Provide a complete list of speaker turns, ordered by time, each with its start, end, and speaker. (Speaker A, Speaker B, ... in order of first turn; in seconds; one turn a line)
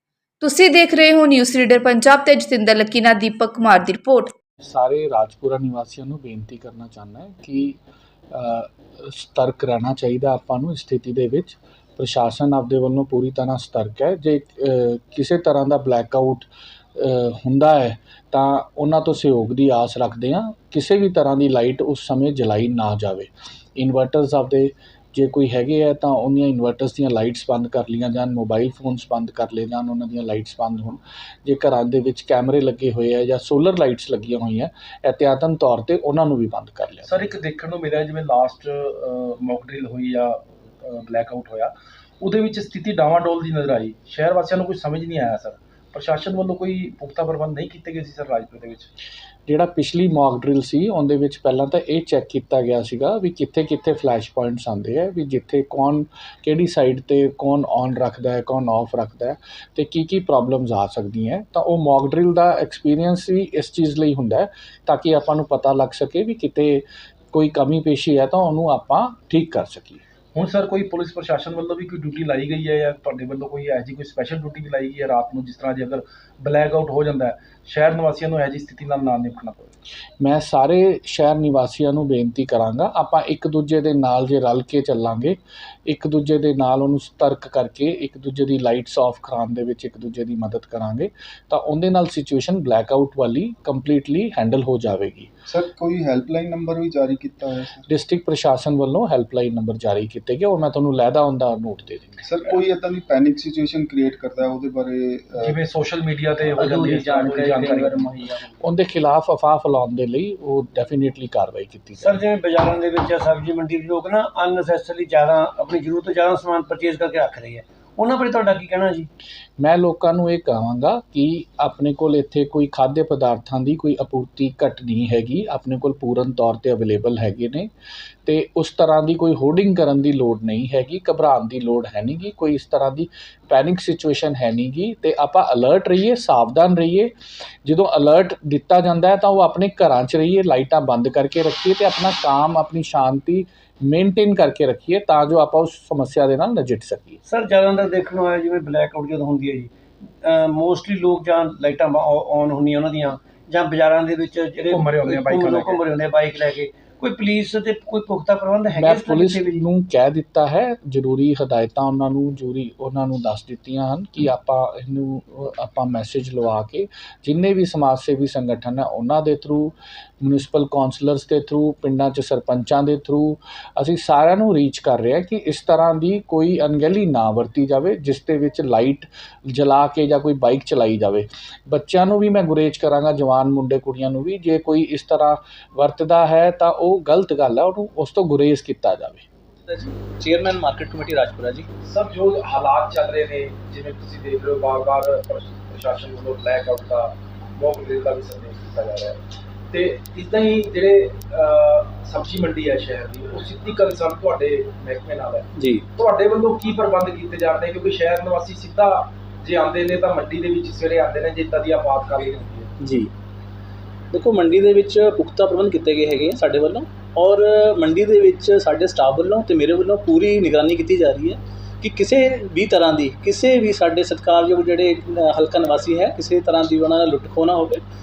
Speaker A: 0.4-4.3
Speaker B: 4.6-7.8
Speaker B: 8.3-37.3
Speaker C: 37.1-48.9
Speaker B: 49.5-70.0
Speaker C: 70.3-79.7
Speaker B: 80.2-95.3
Speaker D: 95.5-97.8
Speaker B: 97.9-102.2
Speaker D: 102.2-105.6
Speaker C: 105.4-108.5
Speaker E: 106.6-108.5
Speaker B: 108.6-112.2
Speaker E: 112.0-119.1
Speaker B: 119.6-127.7
Speaker B: 128.3-137.1
Speaker B: 137.7-147.2
Speaker E: 147.2-159.6
Speaker C: 154.7-155.9
Speaker B: 158.7-189.3
Speaker F: 189.7-191.7
Speaker C: 191.8-199.2
Speaker C: 199.7-212.7
Speaker F: 205.6-205.8
Speaker F: 212.8-213.1
Speaker F: 214.1-227.8